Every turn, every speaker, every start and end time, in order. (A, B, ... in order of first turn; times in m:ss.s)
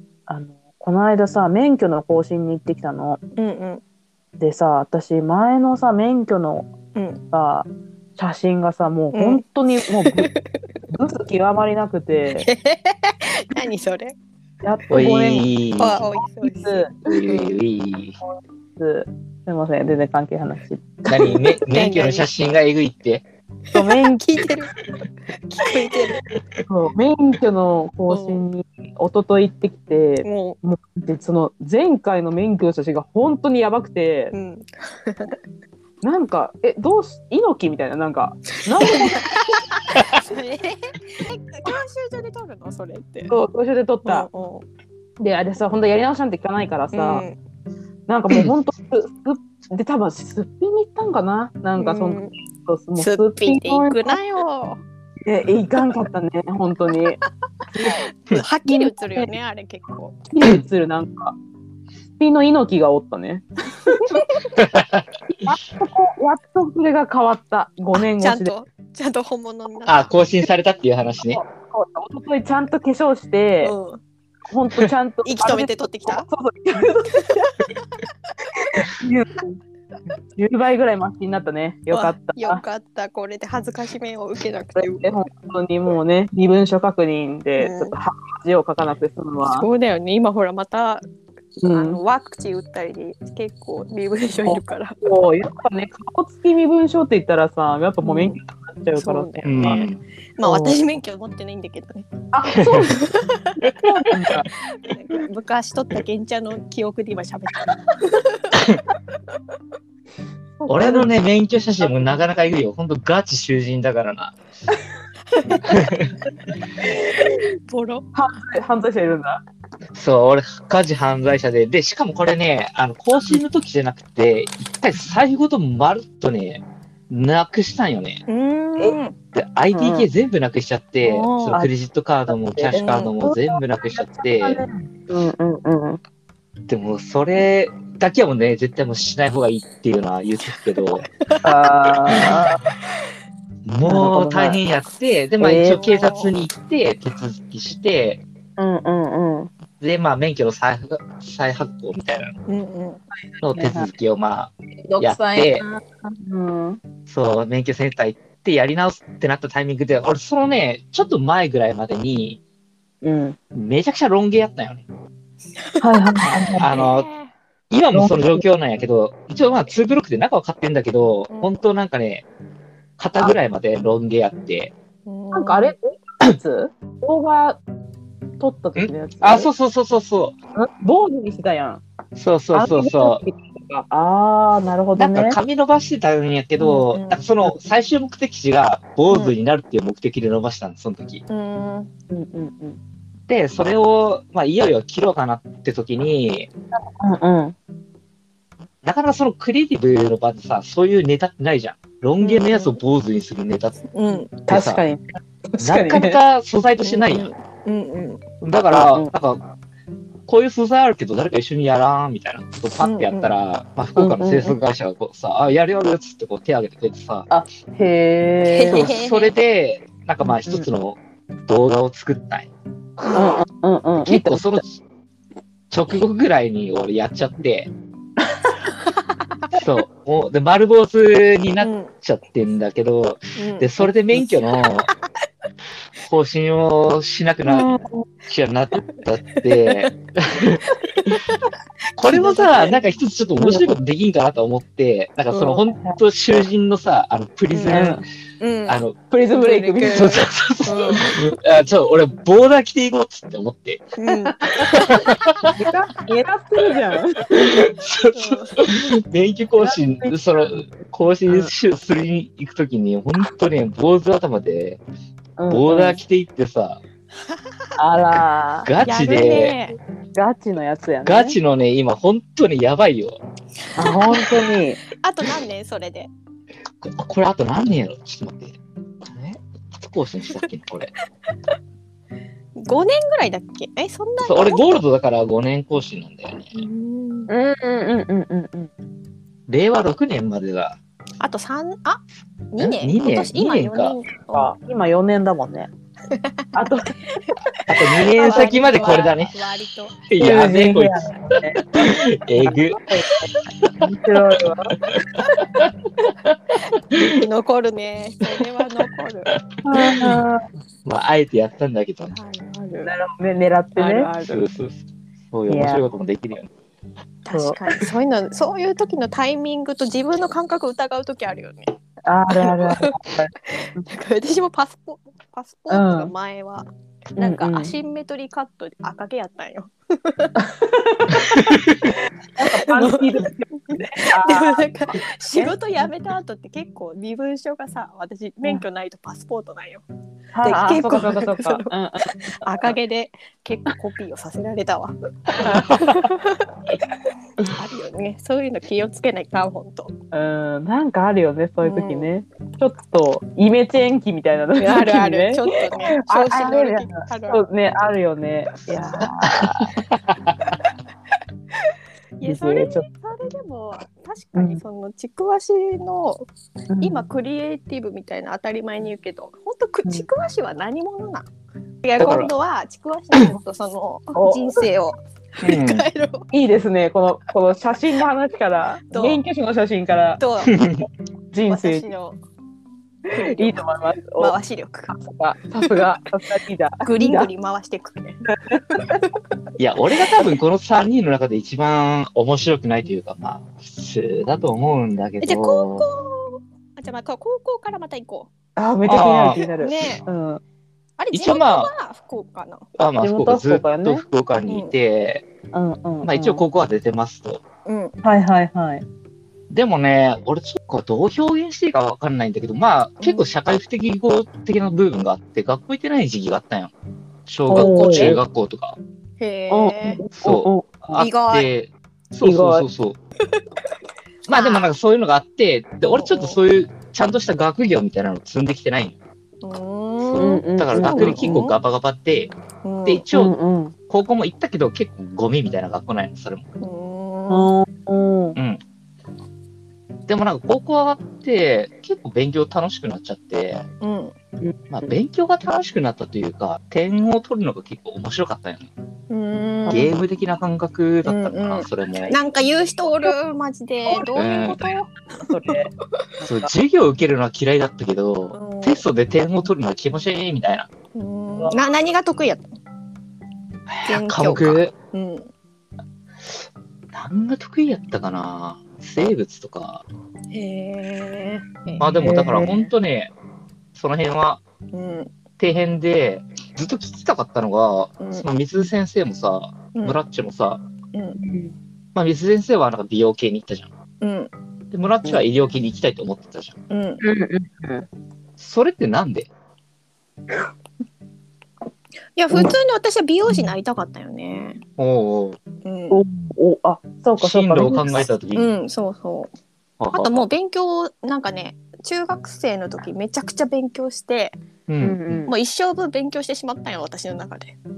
0:00.3-0:03.2 A
0:03.4-0:03.8 B
0:04.4-0:06.7 A
0:07.0-0:07.2 B
0:07.3-0:10.3 A
0:09.1-0:10.5 B
0:10.9-0:12.5 A
0:12.4-0:14.2 B
0:14.6-0:15.0 A
0:14.9-0:17.5 B
0:14.9-0:16.0 C
0:16.2-0:17.0 A
0:17.1-0:18.2 C
0:18.8-0:21.4 A
0:21.1-0:23.2 C
0:21.7-0:22.3 B
0:23.7-0:24.8 B
0:23.7-0:24.3 A
0:25.4-0:26.3 B
0:26.7-0:34.3 A
0:28.1-0:28.4 B
0:30.2-0:30.6 B
0:34.3-0:35.4 B
0:36.0-0:39.3 A
0:38.8-0:43.3 B
0:43.3-0:44.3 A
0:44.0-0:44.7 B
0:45.2-0:47.2 A
0:46.9-0:47.4 B
0:48.1-0:54.2 A
0:51.8-0:52.3 B
0:53.0-0:54.8 B
0:55.3-0:57.2 A
0:57.8-0:58.1 A
0:57.9-1:00.2 B
0:58.7-0:59.3 A
1:00.3-1:01.4 A
1:02.2-1:04.4 A
1:04.6-1:05.0 C
1:05.3-1:08.5 A
1:08.0-1:10.1 B
1:09.9-1:11.4 C
1:11.3-1:13.7 A
1:13.6-1:14.0 B
1:14.5-1:17.5 A
1:15.2-1:16.3 B
1:17.2-1:17.5 B
1:18.6-1:19.6 A
1:20.4-1:22.6 A
1:21.9-1:25.2 B
1:24.8-1:29.7 A
1:27.6-1:27.9 B
1:29.5-1:31.0 B
1:31.6-1:32.0 A
1:31.7-1:35.0 B
1:34.4-1:39.8 A
1:38.0-1:38.4 B
1:39.0-1:43.6 B
1:39.4-1:40.0 C
1:40.4-1:40.8 A
1:42.3-1:43.0 A
1:42.5-1:42.9 C
1:43.6-1:44.5 A
1:44.6-1:48.6 B
1:48.6-1:48.8 C
1:50.6-1:51.1 A
1:50.7-1:54.4 C
1:55.3-1:55.7 B
1:55.6-1:56.2 C
1:57.0-1:58.1 B
1:58.2-1:59.4 A
2:00.0-2:08.2 C
2:08.3-2:09.2 B
2:09.4-2:14.6 C
2:09.7-2:10.1 A
2:11.0-2:11.6 B
2:12.6-2:16.0 A
2:12.8-2:13.1 B
2:16.7-2:21.0 C
2:21.0-2:21.5 B
2:21.4-2:22.6 A
2:23.6-2:28.2 C
2:23.8-2:24.6 A
2:25.4-2:25.9 A
2:25.7-2:26.3 B
2:28.6-2:29.5 A
2:29.8-2:32.3 C
2:32.5-2:33.0 B
2:33.4-2:35.7 C
2:33.5-2:33.9 A
2:34.9-2:35.5 B
2:35.6-2:36.8 A
2:37.1-2:42.4 C
2:43.0-2:43.4 A
2:43.5-2:44.8 C
2:45.6-2:45.8 B
2:45.8-2:46.9 A
2:46.4-2:47.3 B
2:46.6-2:47.1 C
2:47.7-2:52.2 C
2:47.9-2:48.4 A
2:51.3-2:51.6 B
2:53.0-2:54.7 C
2:55.1-2:55.7 B
2:55.3-2:57.6 A
2:58.4-2:59.5 A
2:58.8-3:00.4 C
3:00.6-3:01.8 A
3:02.2-3:03.2 C
3:02.5-3:05.4 A
3:05.0-3:11.2 C
3:06.9-3:07.2 B
3:09.1-3:09.3 B
3:11.3-3:11.9 B
3:12.1-3:12.8 A
3:13.3-3:16.5 C
3:16.8-3:17.6 A
3:18.8-3:23.8 C
3:22.2-3:22.8 B
3:23.9-3:24.3 B
3:24.1-3:26.2 A
3:24.5-3:24.8 C
3:25.6-3:27.3 C
3:26.8-3:28.2 B
3:28.4-3:29.4 C
3:28.7-3:29.1 A
3:30.3-3:37.3 C
3:32.8-3:33.3 B
3:34.0-3:34.6 A
3:37.3-3:38.9 A
3:38.5-3:39.3 B
3:38.7-3:43.2 C
3:40.2-3:40.7 A
3:43.0-3:43.3 B
3:43.1-3:44.6 A
3:44.0-3:44.8 C
3:45.7-3:47.7 C
3:49.5-3:54.9 C
3:51.6-3:51.9 B
3:53.4-3:53.7 B
3:56.0-3:57.8 C
3:57.5-3:58.1 A
3:58.3-4:00.6 C
3:59.0-3:59.9 B
4:01.0-4:01.4 B
4:02.0-4:08.0 C
4:02.0-4:02.8 B
4:03.4-4:03.7 A
4:05.3-4:06.0 A
4:07.5-4:08.8 B
4:07.7-4:08.0 A
4:08.7-4:09.0 C
4:09.1-4:10.1 A
4:09.3-4:11.2 B
4:09.9-4:13.9 C
4:14.0-4:15.1 B
4:14.1-4:14.6 A
4:14.6-4:15.6 C
4:15.6-4:17.2 A
4:17.3-4:24.8 C
4:18.1-4:18.6 B
4:19.6-4:20.2 A
4:21.3-4:21.5 A
4:25.4-4:26.0 A
4:25.5-4:26.8 C
4:27.8-4:28.7 A
4:28.6-4:29.6 C
4:28.8-4:29.8 B
4:30.2-4:31.4 A
4:31.0-4:33.2 C
4:33.8-4:34.8 A
4:33.8-4:36.1 B
4:36.8-4:40.9 C
4:42.6-4:44.8 B
4:44.2-4:46.7 C
4:46.5-4:47.3 B
4:47.3-4:48.7 A
4:49.5-4:50.8 C
4:51.2-4:52.0 B
4:52.5-4:54.5 B
4:52.6-4:54.0 C
4:54.3-4:55.7 A
4:56.1-4:56.4 B
4:56.6-4:57.0 A
4:57.7-4:59.3 C
4:57.9-5:00.0 B
4:58.2-4:59.1 A
5:00.1-5:02.8 C
5:00.2-5:04.8 A
5:03.6-5:03.9 C
5:04.9-5:05.7 C
5:06.2-5:07.2 C
5:07.2-5:09.4 B
5:08.4-5:10.2 C
5:09.6-5:10.4 A
5:10.8-5:12.1 C
5:12.1-5:12.9 B
5:12.8-5:14.1 A
5:13.8-5:14.4 B
5:14.2-5:16.5 C
5:15.5-5:15.8 A
5:17.2-5:21.8 B
5:17.3-5:17.7 A
5:22.1-5:23.9 A
5:22.3-5:30.3 B
5:25.7-5:26.1 A
5:27.2-5:27.7 A
5:30.4-5:31.6 A
5:31.3-5:31.9 C
5:32.4-5:35.6 A
5:32.6-5:33.2 B
5:33.7-5:39.8 B
5:40.3-5:42.7 A
5:40.4-5:46.5 B
5:45.4-5:45.8 A
5:45.5-5:45.8 C
5:47.4-5:49.9 B
5:50.1-5:59.5 A
5:51.6-5:52.1 B
5:54.6-5:57.4 B
5:59.2-6:00.4 C
6:02.2-6:06.2 B
6:02.2-6:02.9 A
6:04.4-6:04.6 A
6:06.7-6:07.0 A
6:06.8-6:11.3 B
6:11.8-6:16.3 B
6:12.0-6:12.3 C
6:14.2-6:14.6 A
6:15.4-6:15.8 C
6:16.3-6:20.2 A
6:18.9-6:19.2 B
6:20.2-6:20.7 B
6:20.4-6:20.9 C
6:21.3-6:21.9 A
6:21.5-6:22.2 B
6:23.1-6:24.4 A
6:23.1-6:24.9 B
6:24.9-6:27.3 A
6:25.6-6:25.9 B
6:26.8-6:28.2 B
6:28.3-6:29.0 A
6:28.7-6:29.1 B
6:29.6-6:35.8 C
6:35.2-6:38.3 B
6:38.6-6:40.4 A
6:38.8-6:39.4 C
6:39.4-6:40.0 B
6:41.0-6:42.7 B
6:41.1-6:41.7 C
6:42.8-6:45.3 C
6:43.0-6:44.0 A
6:44.5-6:44.7 B
6:45.5-6:46.4 A
6:46.0-6:47.4 C
6:47.6-6:48.0 B
6:48.0-6:48.8 A
6:49.5-6:56.7 C
6:53.0-6:53.3 B
6:57.3-6:58.8 C
6:57.5-6:58.2 A
6:57.8-6:58.2 B
6:59.2-7:00.0 B
6:59.5-7:01.1 A
7:00.1-7:03.0 C
7:01.0-7:01.5 B
7:02.2-7:02.7 A
7:04.3-7:04.7 B
7:04.3-7:09.0 C
7:05.9-7:06.4 B
7:09.4-7:11.6 B
7:10.0-7:12.3 C
7:10.2-7:11.5 A
7:12.6-7:13.1 B
7:12.9-7:13.4 C
7:13.1-7:13.7 A
7:13.9-7:16.4 C
7:16.6-7:17.5 B
7:17.3-7:18.4 A
7:18.4-7:18.6 C
7:20.1-7:23.6 C
7:23.8-7:24.2 B
7:24.4-7:24.9 A
7:24.7-7:28.7 C
7:29.1-7:29.9 B
7:29.7-7:32.1 C
7:31.0-7:35.6 B
7:34.2-7:34.8 C
7:35.2-7:36.5 A
7:36.2-7:40.7 C
7:38.3-7:38.8 B
7:41.0-7:42.4 B
7:43.7-7:44.7 C
7:43.8-7:45.3 B
7:46.9-7:49.8 C
7:50.3-7:51.9 B
7:51.8-7:53.1 C
7:51.8-7:52.7 A
7:53.8-7:54.4 C
7:54.7-7:55.1 B
7:55.4-8:00.6 C
7:58.0-7:58.2 B
7:59.7-8:00.0 B
8:00.9-8:01.2 B
8:01.2-8:01.5 A
8:02.0-8:03.7 C
8:04.0-8:04.3 B
8:04.7-8:06.6 C
8:06.7-8:07.0 B
8:07.0-8:07.9 A
8:08.4-8:09.3 C
8:12.2-8:14.6 B
8:14.8-8:15.4 C
8:15.6-8:16.0 B
8:15.9-8:18.1 A
8:17.2-8:18.5 C
8:18.4-8:19.3 B
8:19.8-8:20.3 C
8:19.9-8:24.4 B
8:24.7-8:25.2 C
8:24.8-8:25.3 A
8:25.3-8:27.6 B